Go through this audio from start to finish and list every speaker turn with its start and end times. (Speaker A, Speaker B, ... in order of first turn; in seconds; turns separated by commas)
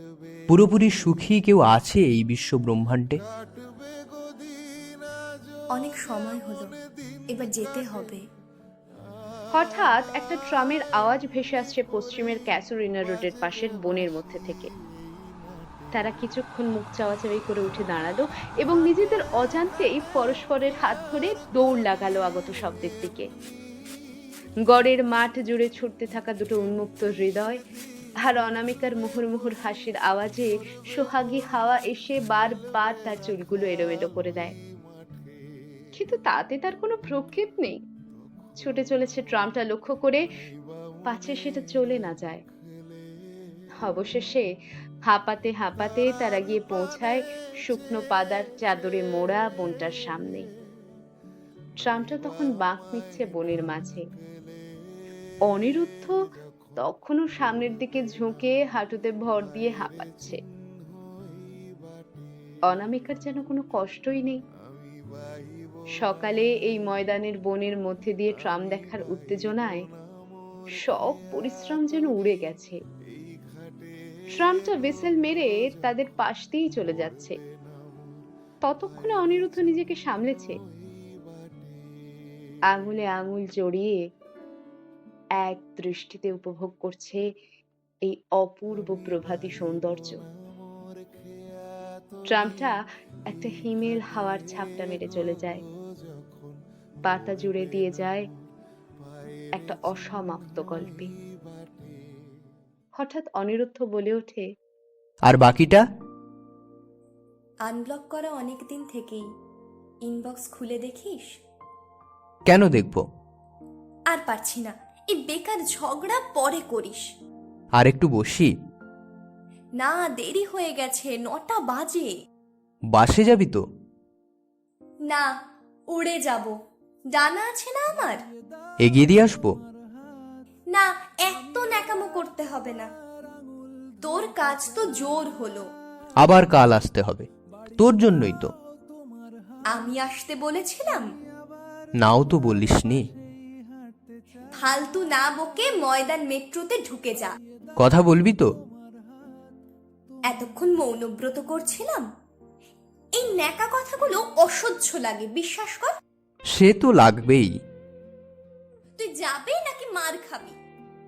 Speaker A: 0.5-3.2, Speaker B: 5.7-6.7, Speaker B: 7.3-8.2, Speaker C: 9.5-14.7, Speaker C: 15.9-23.3, Speaker C: 24.7-27.6, Speaker C: 28.2-34.6, Speaker C: 35.9-37.8, Speaker C: 38.6-40.2, Speaker C: 41.0-42.4, Speaker C: 43.8-44.5, Speaker C: 45.1-50.5, Speaker C: 51.8-54.1, Speaker C: 55.5-56.2, Speaker C: 56.8-60.4, Speaker C: 62.7-64.4, Speaker C: 66.0-69.9, Speaker C: 70.8-72.8, Speaker C: 74.3-77.4, Speaker C: 78.6-80.6, Speaker C: 82.7-84.0, Speaker C: 85.4-87.2, Speaker C: 88.0-90.2, Speaker C: 92.3-92.8, Speaker C: 93.3-95.6, Speaker C: 97.0-98.3, Speaker C: 99.6-101.1, Speaker C: 103.0-104.5, Speaker A: 105.3-105.8, Speaker B: 107.6-109.3, Speaker B: 110.0-111.4, Speaker A: 112.5-113.0, Speaker B: 114.1-117.1, Speaker A: 117.8-118.5, Speaker B: 119.8-122.2, Speaker A: 122.9-123.6, Speaker B: 125.9-126.5, Speaker B: 127.1-128.3, Speaker A: 128.8-129.5, Speaker B: 130.7-132.9, Speaker B: 134.0-135.7, Speaker A: 136.2-138.5, Speaker B: 139.7-141.1, Speaker A: 142.0-143.1, Speaker B: 144.6-147.4, Speaker A: 147.8-148.5, Speaker B: 150.3-152.1, Speaker B: 153.2-155.9, Speaker A: 156.5-157.5, Speaker B: 159.0-160.6